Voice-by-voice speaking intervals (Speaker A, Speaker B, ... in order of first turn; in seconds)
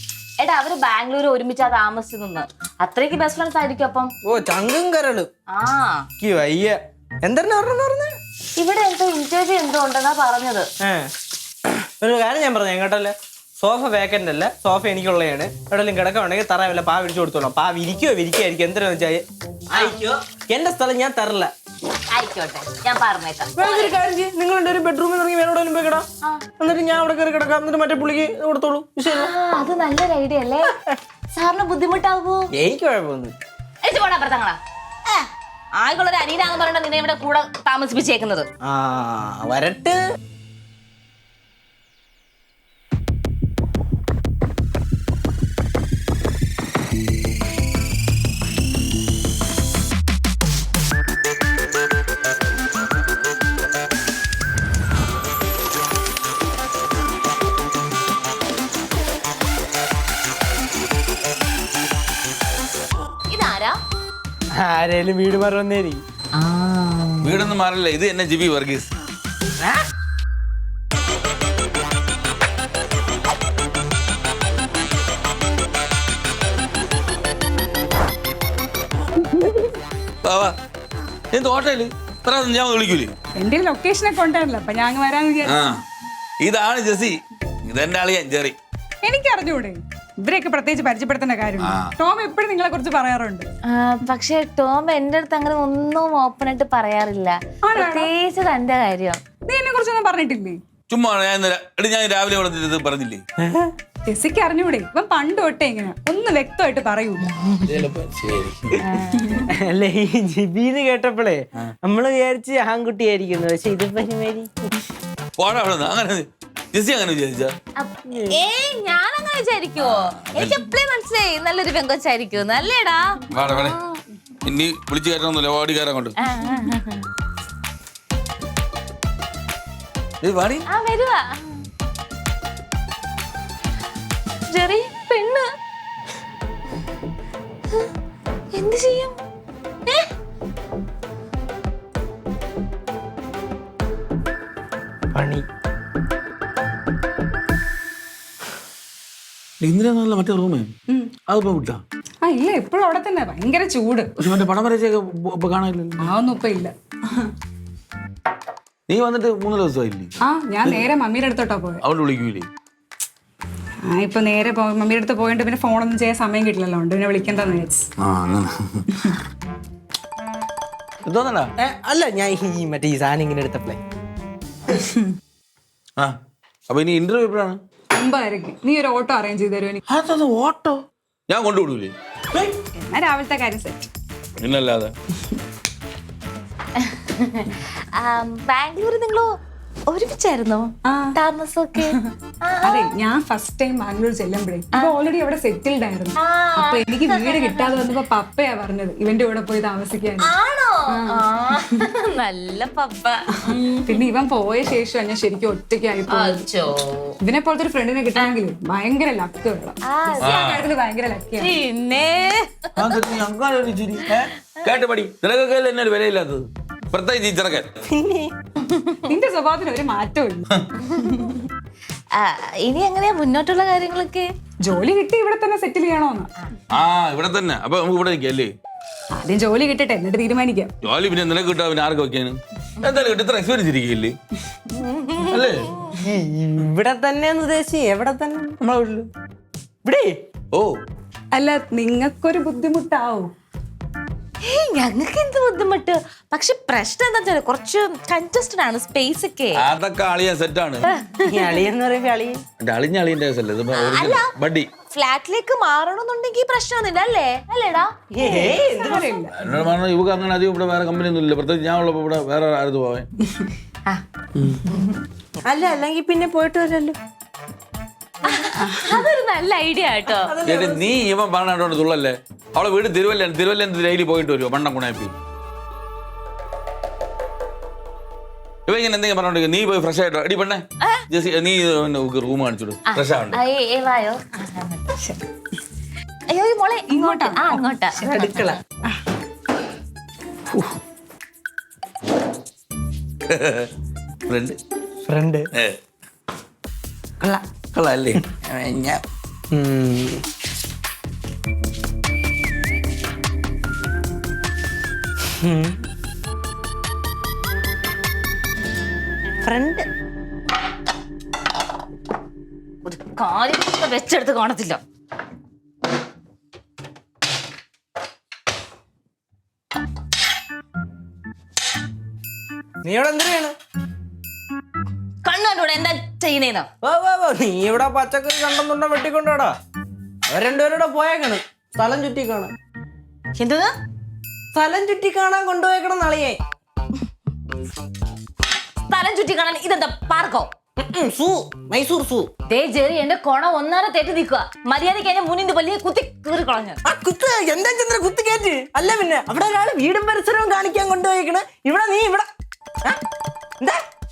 Speaker A: 0.4-4.1, 5.5-6.1, 8.6-10.7, 22.1-24.0, 29.1-30.7, 31.3-32.5, 33.8-34.6, 35.8-38.5, 63.3-63.8, 66.3-67.4, 93.7-99.2, 108.8-109.5, 117.8-123.6, 126.2-127.1, 130.7-131.6, 134.5-135.4, 138.5-139.2, 186.8-189.3, 189.9-192.9, 196.2-197.8, 200.2-204.0, 206.1-207.2, 209.9-210.4, 211.4-212.9, 218.6-219.0, 220.9-221.1, 222.1-224.3, 234.8-235.4, 244.4-249.6, 250.9-251.6, 253.8-254.3, 254.9-257.9, 268.2-270.3, 282.9-284.9, 286.3-288.5, 312.9-314.8, 325.2-326.7, 333.4-333.7, 338.9-340.5, 342.5-346.8
Speaker B: 4.2-5.3, 6.2-8.1, 10.8-11.1, 12.0-21.5, 23.6-26.1, 26.6-29.3, 32.5-33.4, 38.6-40.0, 64.5-66.0, 103.4-103.7, 109.5-114.8, 118.1-118.4, 145.1-145.4, 171.6-173.8, 217.9-218.3, 235.9-238.6, 239.8-240.2, 251.2-252.4, 258.1-259.1, 265.4-267.0, 270.2-271.0, 288.0-288.6, 295.1-295.5, 299.5-300.2, 305.4-305.8, 309.4-309.9, 322.8-323.6, 326.8-329.6, 330.3-332.5, 334.5-336.4, 340.8-342.3, 346.9-352.3
Speaker C: 67.2-68.9, 80.2-80.6, 81.3-83.1, 85.4-85.8, 86.4-88.6, 91.6-92.0, 100.9-103.2, 107.6-108.8, 115.4-117.6, 119.8-120.7, 123.3-123.8, 124.4-126.2, 130.2-130.7, 149.6-150.7, 151.3-151.8, 154.2-156.1, 158.9-160.1, 161.8-162.5, 168.0-168.9, 171.0-171.5, 176.7-177.6, 179.9-181.9, 184.4-184.9, 210.2-210.7, 212.8-217.7, 226.7-228.6, 230.8-234.2, 235.3-235.8, 238.6-239.1, 249.6-250.8, 252.6-254.7, 259.4-263.1, 264.4-264.7, 270.4-275.1, 278.7-283.4, 293.3-293.7, 294.3-294.6, 295.5-295.8, 297.7-299.0
Speaker D: 83.4-85.6, 89.0-93.5, 97.7-98.1, 99.5-100.6, 104.1-107.3, 152.2-154.4, 156.0-157.3, 160.2-161.8, 163.9-167.9, 178.0-179.8, 182.8-183.9, 190.9-191.2, 191.8-200.3, 200.9-201.9, 203.4-206.5, 207.2-211.6, 219.1-220.5, 224.6-226.3, 229.2-230.7, 241.3-243.3, 258.3-259.3, 268.6-269.1, 286.9-288.2